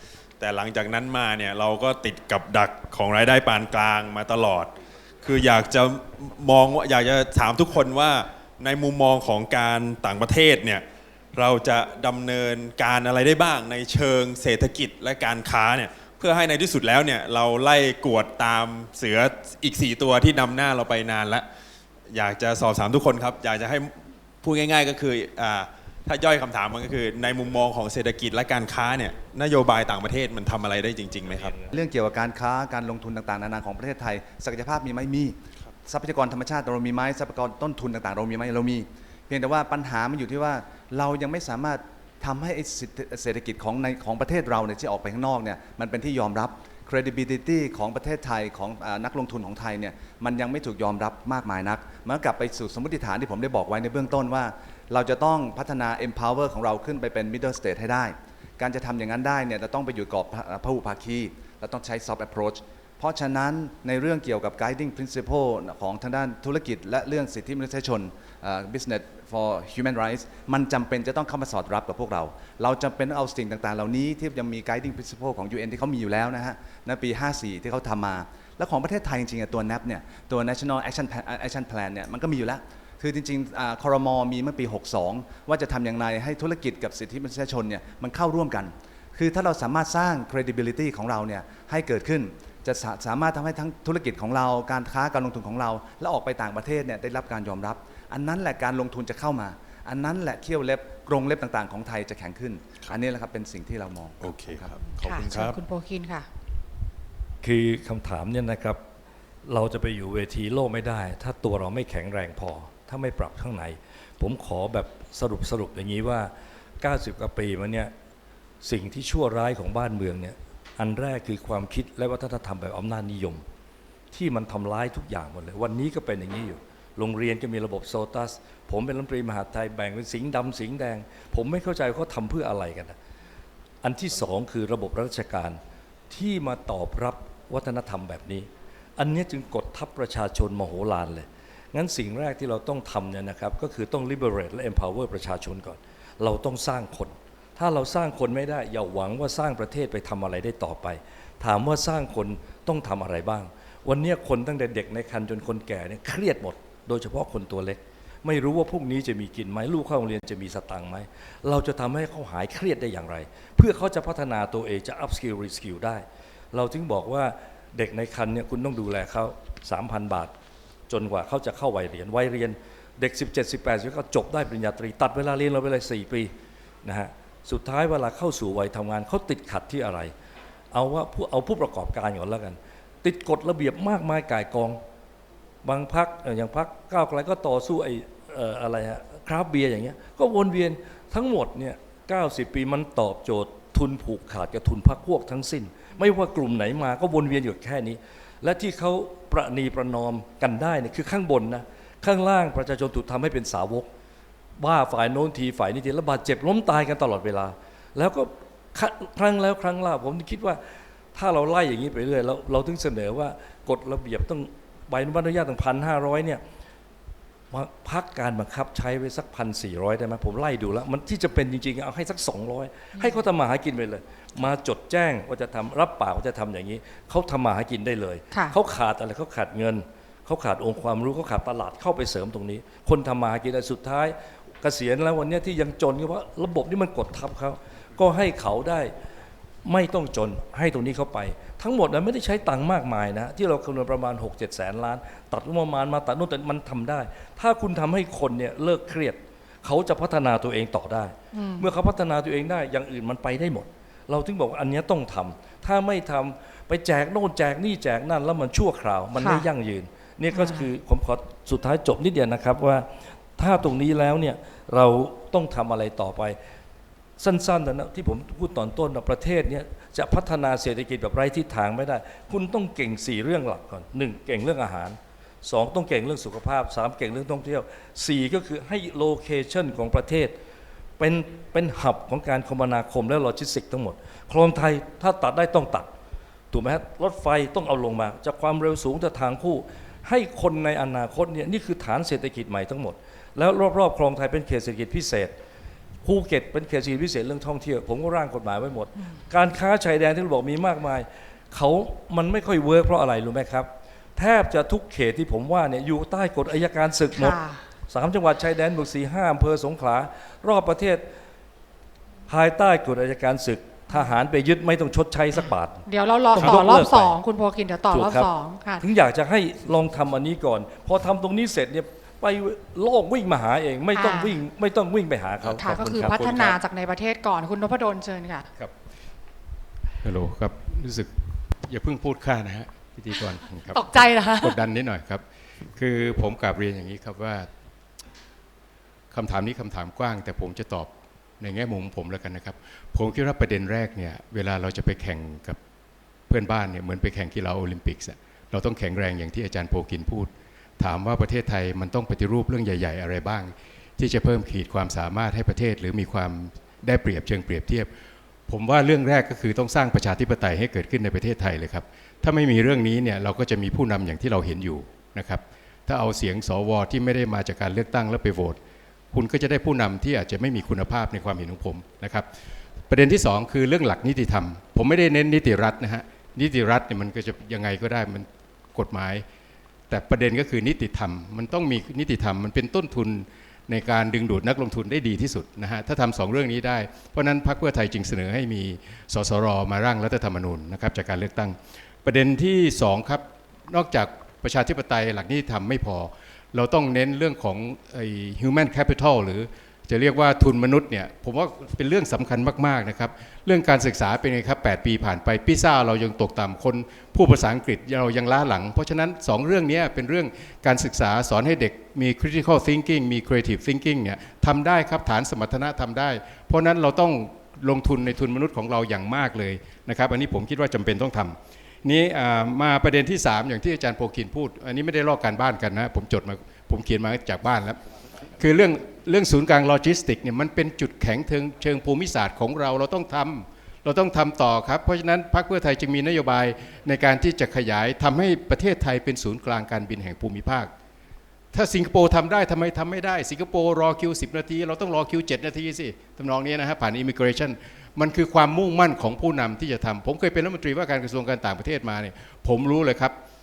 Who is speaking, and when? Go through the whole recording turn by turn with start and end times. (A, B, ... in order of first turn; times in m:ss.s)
0:00.4-0:21.4 A
0:22.1-0:31.6 A
0:31.7-1:44.8 B
1:44.2-1:45.6 A
1:44.9-1:46.3 C
1:47.4-1:48.8 D
1:49.4-1:57.9 D
1:58.6-2:03.4 D
2:04.1-2:13.0 D
2:13.8-2:15.6 D
2:16.1-2:50.3 D
2:50.9-2:56.3 D
2:56.8-3:00.1 D
3:00.7-3:04.8 D
3:05.6-3:23.9 D
3:24.6-3:30.6 D
3:31.1-3:36.4 D
3:37.5-3:58.9 D
3:59.6-4:26.4 D
4:11.3-4:11.7 C
4:19.2-4:19.4 C
4:20.3-4:20.7 C
4:27.2-4:40.3 D
4:41.0-4:45.9 D
4:46.5-4:55.3 D
4:56.0-5:11.1 D
5:07.1-5:07.6 C
5:12.3-5:17.2 D
5:15.4-5:18.8 C
5:17.9-5:26.6 D
5:23.9-5:24.4 C
5:25.4-5:26.2 A
5:25.6-5:28.5 C
5:30.0-5:31.1 E
5:31.6-5:35.2 E
5:33.7-5:34.6 C
5:35.7-5:37.5 E
5:39.1-5:45.6 E
5:46.3-5:57.9 E
5:58.5-6:08.6 E
6:09.1-6:12.3 E
6:12.9-6:19.2 E
6:19.9-7:07.8 E
7:08.4-7:20.7 E
7:21.5-7:33.1 E